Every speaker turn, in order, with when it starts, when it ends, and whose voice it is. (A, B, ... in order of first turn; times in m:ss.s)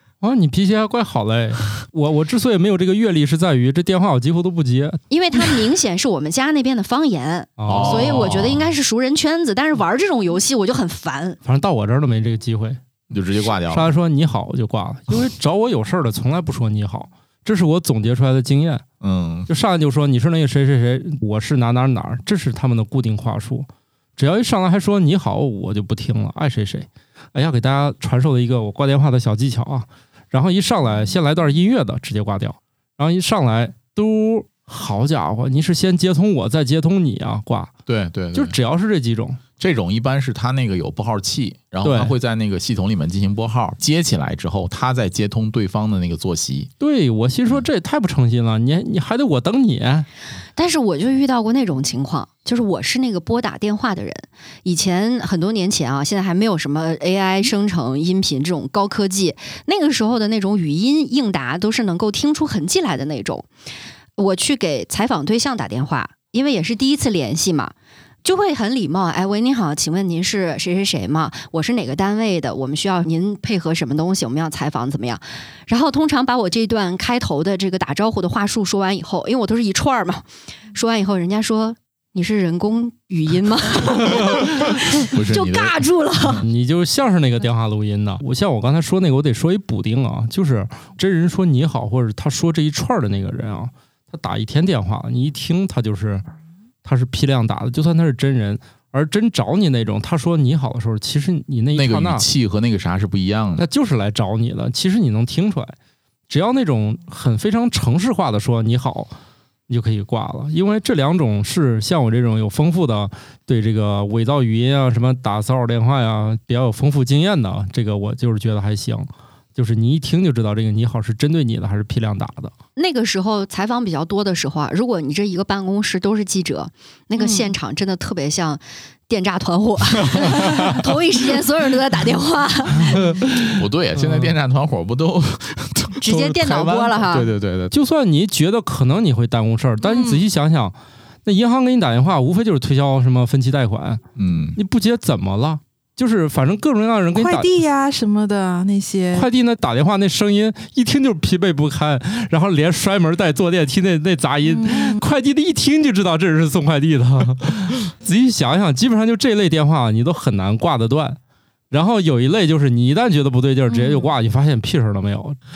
0:00.2-0:05.6 A
0:05.1-0:11.4 B
0:07.6-0:08.6 A
0:07.6-0:08.6 C
0:11.4-0:12.8 A
0:13.1-0:13.9 C
0:13.4-0:18.8 A
0:19.0-0:19.5 C
0:19.5-0:37.7 A
0:37.9-0:38.5 C
0:38.3-0:39.4 A
0:39.6-0:46.7 C
0:41.8-0:42.1 A
0:46.8-0:50.1 A
0:50.6-1:03.5 B
1:04.2-1:07.7 B
1:08.2-1:26.4 B
1:25.0-1:26.4 C
1:26.4-1:36.2 A
1:36.8-1:42.2 A
1:41.7-1:43.6 C
1:43.6-1:45.7 A
1:46.3-1:49.1 A
1:49.7-2:02.5 A
2:02.8-2:13.2 B
2:07.2-2:07.5 D
2:10.0-2:10.9 C
2:12.8-2:14.3 A
2:13.5-2:17.7 C
2:16.0-2:17.3 B
2:17.7-2:24.0 A
2:19.8-2:20.2 D
2:24.2-2:24.6 C
2:24.6-2:27.5 A
2:27.1-2:29.3 D
2:29.1-2:41.2 A
2:34.4-2:35.0 D
2:41.7-2:45.4 A
2:43.7-2:44.1 D